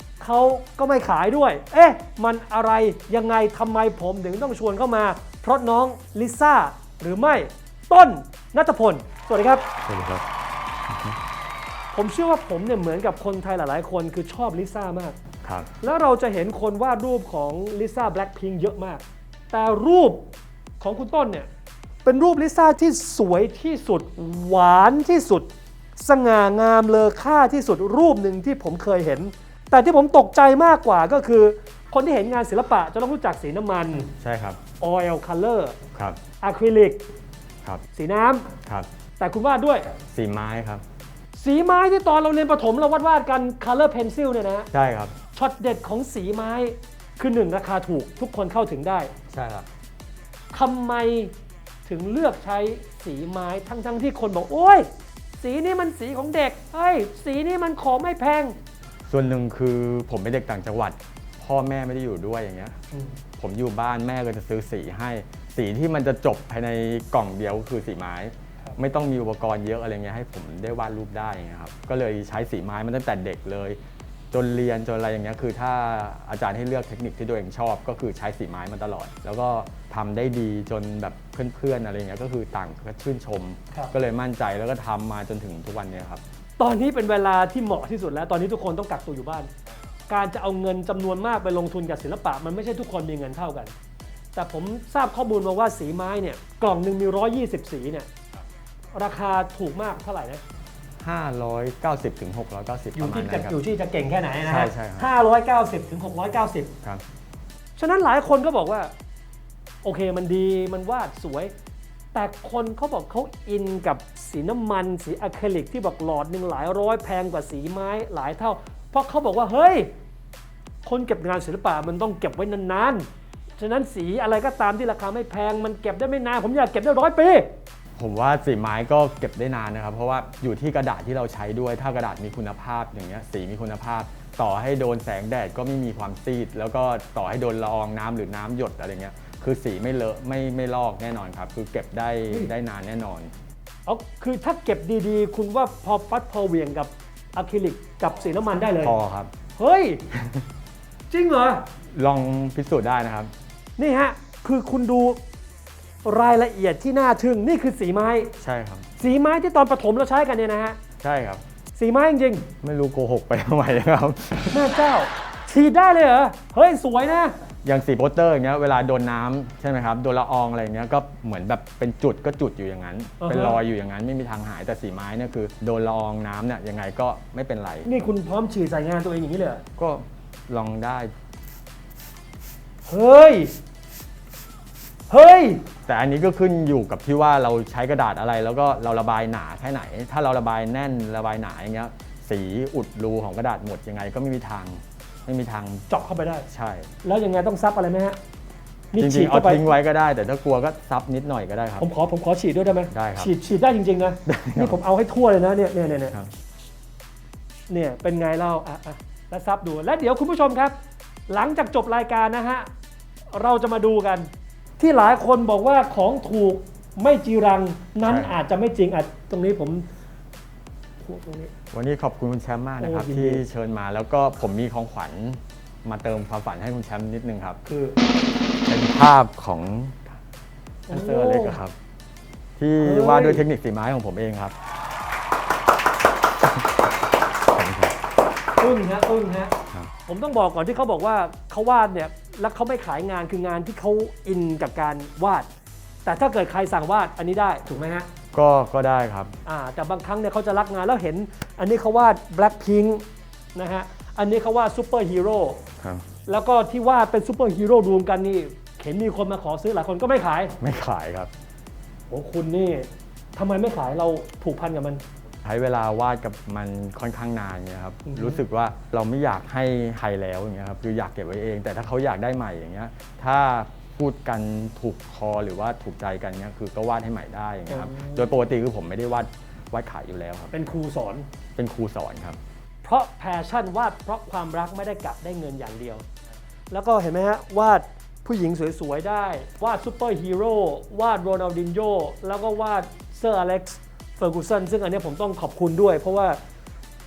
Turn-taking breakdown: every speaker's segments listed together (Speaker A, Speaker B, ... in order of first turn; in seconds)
Speaker A: 0.2-9.7, 11.9-15.2, 15.8-20.3, 20.8-21.5, 22.0-34.1, 34.8-35.8, 36.4-37.1, 37.9-38.5, 39.2-40.0, 41.4-44.7, 45.3-49.1, 50.5-51.3, 51.9-54.9, 55.4-58.5, 86.6-89.5, 90.1-93.7, 94.3-98.1, 98.9-100.4, 103.0-106.7, 107.8-108.9, 109.8-111.5, 112.1-119.9, 120.8-123.0, 123.6-127.5, 143.8-148.9, 149.6-150.0, 151.1-151.7, 153.8-155.2, 156.0-158.3, 159.0-160.8, 161.8-162.5, 164.5-167.3, 173.2-173.6, 177.8-179.6, 182.9-183.5, 185.1-185.6, 195.9-196.5, 197.0-198.2, 198.9-199.7, 201.8-206.1, 207.7-210.7, 211.3-212.7, 213.3-214.3, 214.8-219.8, 221.0-221.5, 222.8-223.4, 227.6-228.0, 230.9-231.6, 232.8-233.4, 238.6-239.5, 240.1-245.5, 246.0-248.1, 249.4-255.6, 256.2-260.6, 262.1-265.0, 268.1-268.4, 277.7-278.3, 280.5-281.3, 282.8-286.0, 286.7-296.4
Speaker B: 9.8-10.2, 10.9-11.2, 15.4-15.7, 34.2-34.6, 40.1-40.8, 44.7-45.1, 49.3-49.7, 59.1-62.8, 63.4-73.8, 74.3-86.2, 101.0-103.6, 104.4-105.1, 128.0-143.3, 148.8-149.3, 150.2-150.4, 151.9-153.3, 158.4-158.8, 161.0-161.4, 162.6-164.6, 167.6-177.9, 179.8-181.1, 185.9-195.9, 196.5-196.9, 198.9-201.9, 202.9-203.3, 204.2-204.8, 218.0-218.4, 221.7-227.6, 228.6-230.1, 230.9-231.7, 232.6-234.5, 237.5-237.9, 248.3-249.4, 260.6-261.3, 265.4-280.5, 281.6-282.4